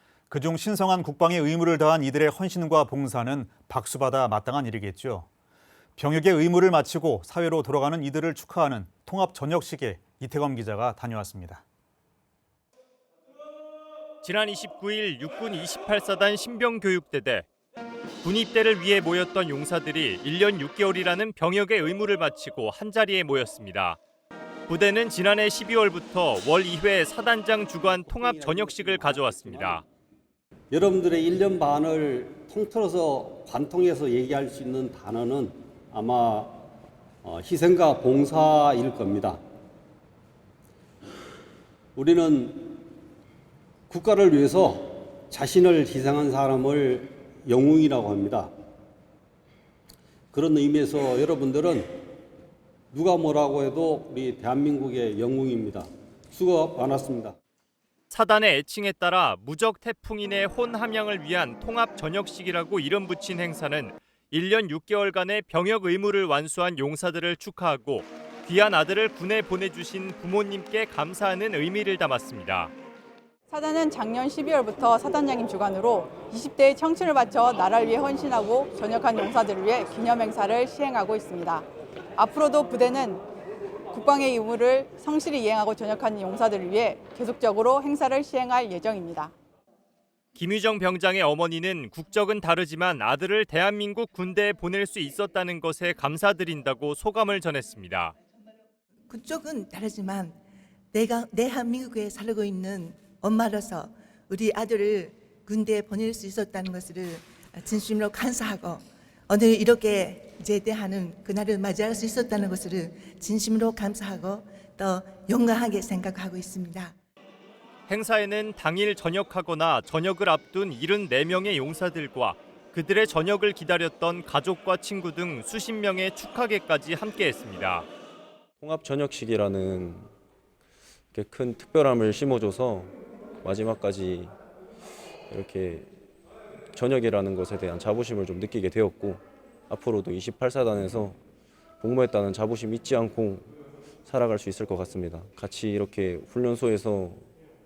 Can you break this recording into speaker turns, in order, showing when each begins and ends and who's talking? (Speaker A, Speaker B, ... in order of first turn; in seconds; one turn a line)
Speaker A: 0.3-5.3
Speaker A: 6.0-11.6
Speaker B: 14.2-17.4
Speaker B: 18.2-24.0
Speaker B: 24.7-29.8
Speaker C: 27.8-29.8
Speaker C: 30.7-36.6
Speaker C: 37.2-39.4
Speaker C: 42.0-42.8
Speaker C: 43.9-48.5
Speaker C: 50.3-51.9
Speaker C: 52.9-57.3
Speaker B: 58.1-72.7
Speaker D: 73.5-81.7
Speaker D: 82.2-83.2
Speaker D: 83.9-89.3
Speaker B: 90.3-98.1
Speaker E: 99.1-100.4
Speaker E: 100.9-116.9
Speaker B: 117.9-127.8
Speaker F: 128.6-130.1
Speaker F: 131.1-134.3
Speaker F: 135.3-135.9
Speaker F: 136.7-141.2
Speaker F: 141.8-143.5
Speaker F: 144.1-147.2